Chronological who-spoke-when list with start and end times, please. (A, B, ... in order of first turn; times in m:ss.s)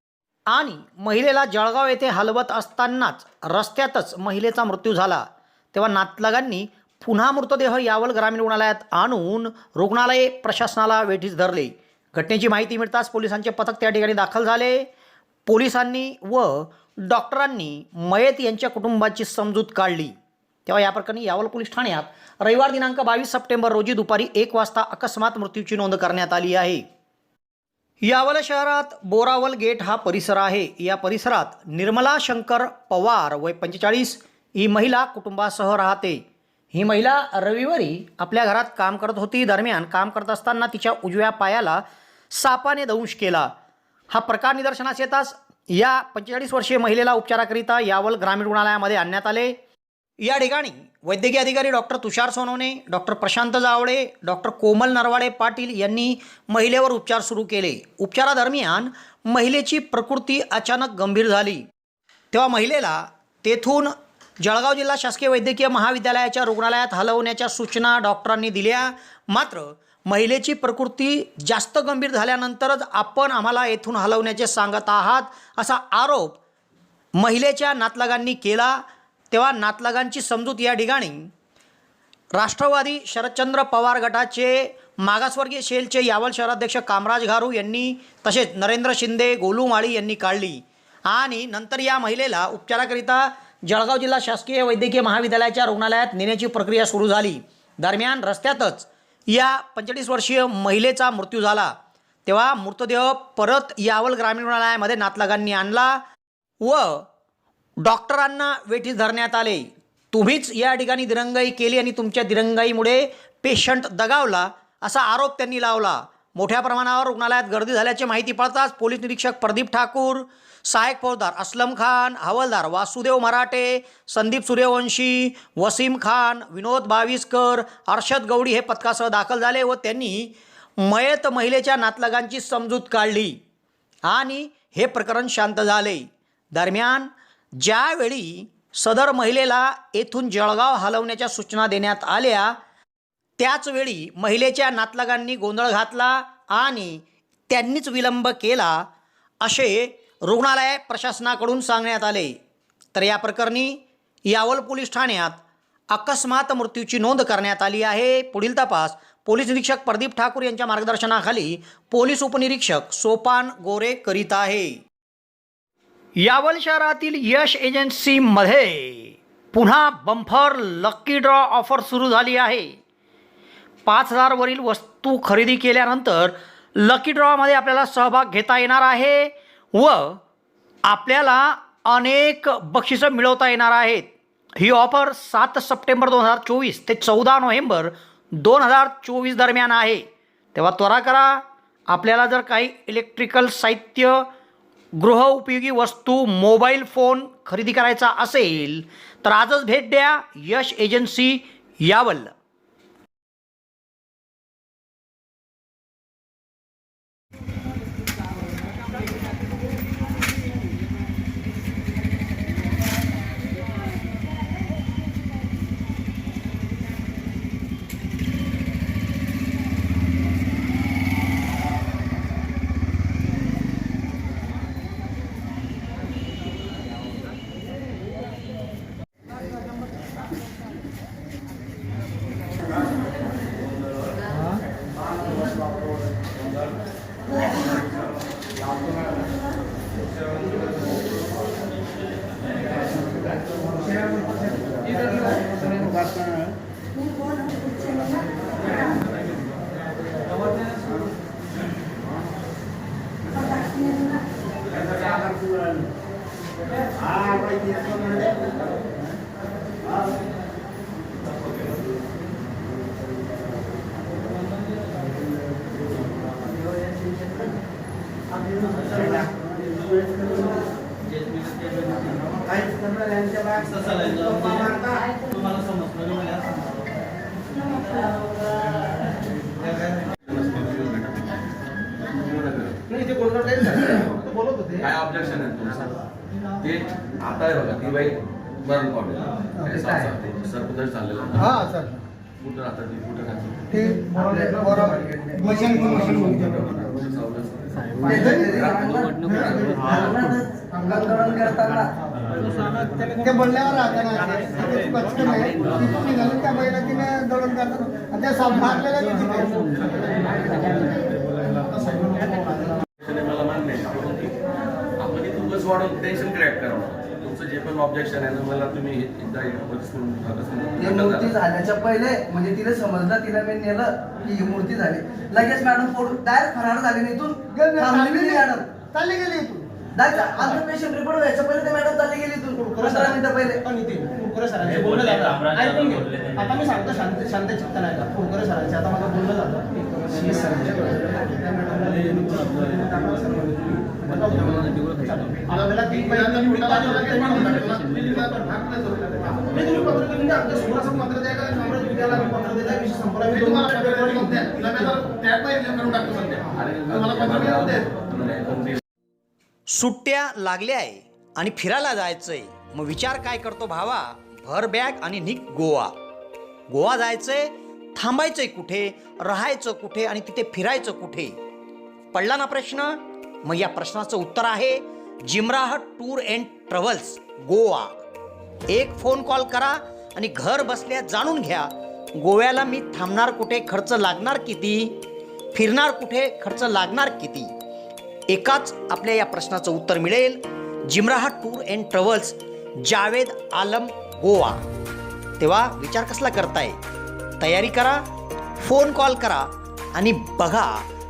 0:00.5-0:14.9 A
0:15.5-0:20.1 A
0:20.6-0:26.8 A
0:28.0-0:36.2 A
0:36.7-0:43.5 A
0:44.1-0:49.6 A
0:50.2-1:01.6 A
1:02.3-1:16.4 A
1:17.2-1:18.8 A
1:19.3-1:21.3 A
1:22.4-1:41.7 A
1:42.3-1:46.0 A
1:46.6-1:47.0 A
1:47.8-2:13.4 A
2:14.1-2:17.1 A
2:17.6-2:22.5 A
2:23.4-2:28.8 A
2:29.4-2:32.3 A
2:32.9-2:44.8 A
2:46.2-2:52.8 A
2:53.9-3:00.2 A
3:00.9-3:10.0 A
3:10.6-3:14.3 A
3:15.0-3:22.3 A
4:05.7-4:06.3 B
4:40.2-4:41.4 C
4:42.1-4:42.9 C
4:42.9-4:44.8 B
4:44.8-4:46.0 C
4:46.6-4:51.6 C
4:49.6-4:50.2 D
4:51.4-4:52.0 B
4:52.4-4:53.7 C
4:53.7-4:56.7 B
4:53.9-4:56.2 D
4:56.0-5:00.2 C
4:58.0-5:01.9 D
4:58.2-4:58.5 B
5:02.8-5:12.8 B
5:13.0-5:14.4 C
5:15.0-5:21.3 C
5:20.8-5:28.7 D
5:27.6-5:29.8 B
5:29.9-5:33.7 D
5:32.6-5:56.4 B
5:56.4-5:58.8 C
5:57.2-5:57.8 B
5:59.7-6:05.9 A
6:06.7-6:11.3 A
6:12.1-6:17.9 A
6:18.7-6:25.0 A
6:25.5-6:27.5 A
6:28.3-6:34.6 A
6:35.4-6:36.8 A
6:37.4-6:38.0 A
6:38.6-6:40.8 A